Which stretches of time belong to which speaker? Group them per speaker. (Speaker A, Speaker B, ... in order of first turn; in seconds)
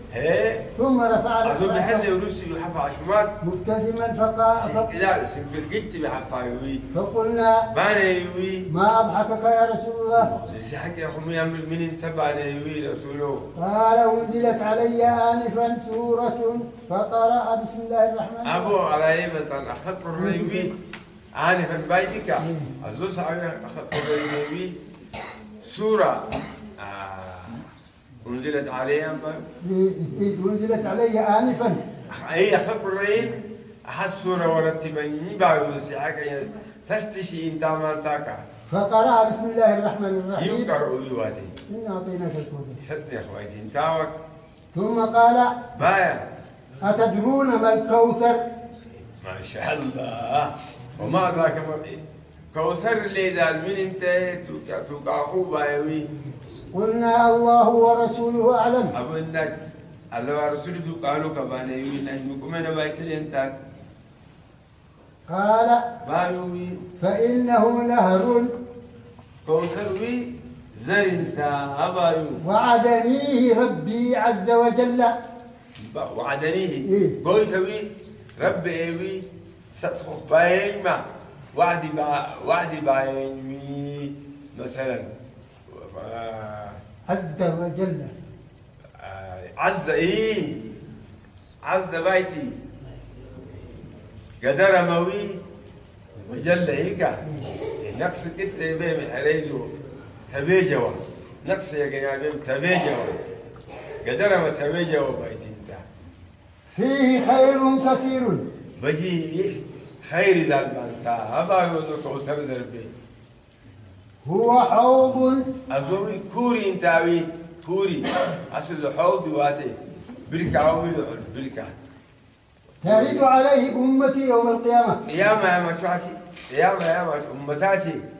Speaker A: 0.1-0.7, 1.4-3.3, 4.5-6.8, 7.7-8.7, 10.3-13.5, 18.4-20.7, 21.3-24.8, 25.6-27.6, 28.2-29.4, 32.1-38.4, 40.4-41.5, 42.8-44.1, 45.7-46.2, 48.9-52.0, 52.5-56.1, 58.9-59.5, 60.1-63.5, 66.0-66.8, 69.4-72.4, 75.8-85.1, 85.7-86.8, 88.9-90.6, 91.6-92.6, 94.4-95.4, 96.2-99.7, 100.3-103.2, 104.0-105.8, 108.8-112.9, 115.7-121.7, 122.8-123.2, 125.0-128.0
Speaker B: 0.8-2.1, 3.4-4.9, 6.9-7.7, 8.7-10.3, 13.6-18.8, 20.1-20.7, 22.4-22.7, 29.6-31.8, 38.7-40.7, 41.7-42.8, 44.7-45.6, 46.8-48.4, 51.0-51.3, 56.7-58.9, 65.3-65.8, 67.0-68.5, 72.4-75.1, 76.8-77.2, 87.1-88.1, 106.7-108.4, 114.2-115.5, 122.8-125.0